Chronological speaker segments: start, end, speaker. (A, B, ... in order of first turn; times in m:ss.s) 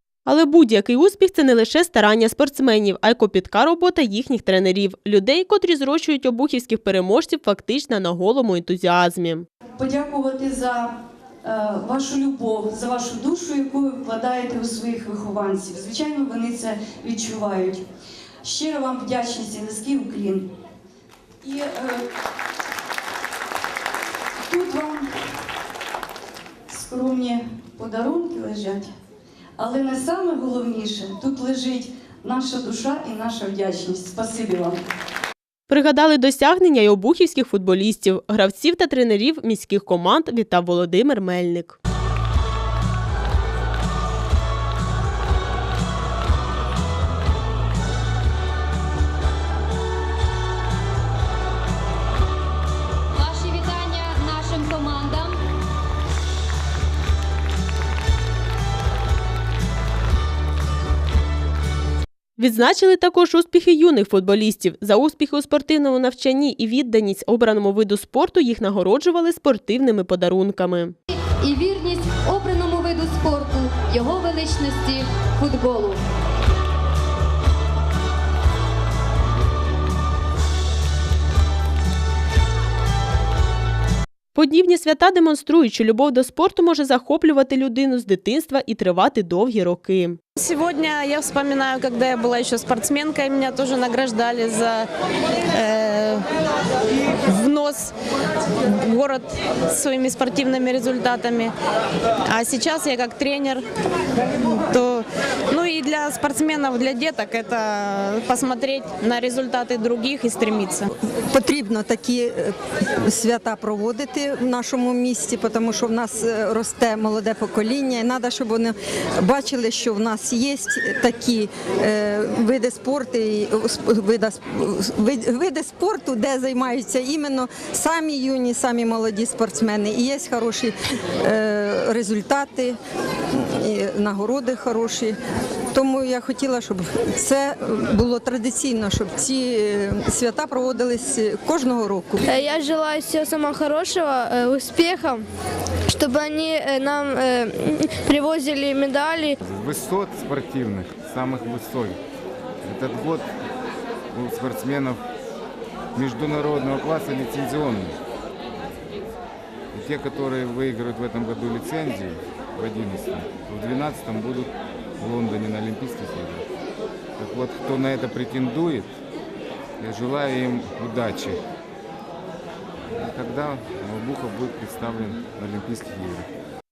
0:00.2-0:09.5 A
0:09.8-0:17.8 B
0:18.4-0:20.5 B
0:21.4-0:22.0 B
0:24.4-0:25.1 B
0:26.7-0:28.9 B
0:29.6-0:34.8 B
0:35.7-0:41.8 A
0:53.1-0:55.4 C
1:02.4-1:10.9 A
1:11.2-1:16.0 C
1:24.3-1:30.2 A
1:30.4-1:34.9 D
1:35.5-1:36.3 D
1:37.2-1:37.9 D
1:38.6-1:41.5 D
1:42.2-1:43.6 D
1:44.3-1:50.9 D
1:51.0-2:12.8 E
2:13.3-2:15.2 E
2:15.7-2:22.2 E
2:22.4-2:25.2 F
2:26.0-2:29.2 F
2:29.4-2:32.0 G
2:32.6-2:33.3 G
2:34.1-2:35.0 G
2:35.9-2:38.0 G
2:39.7-2:46.4 G
2:47.2-2:48.9 G
2:49.8-2:51.4 G
2:53.0-2:56.3 G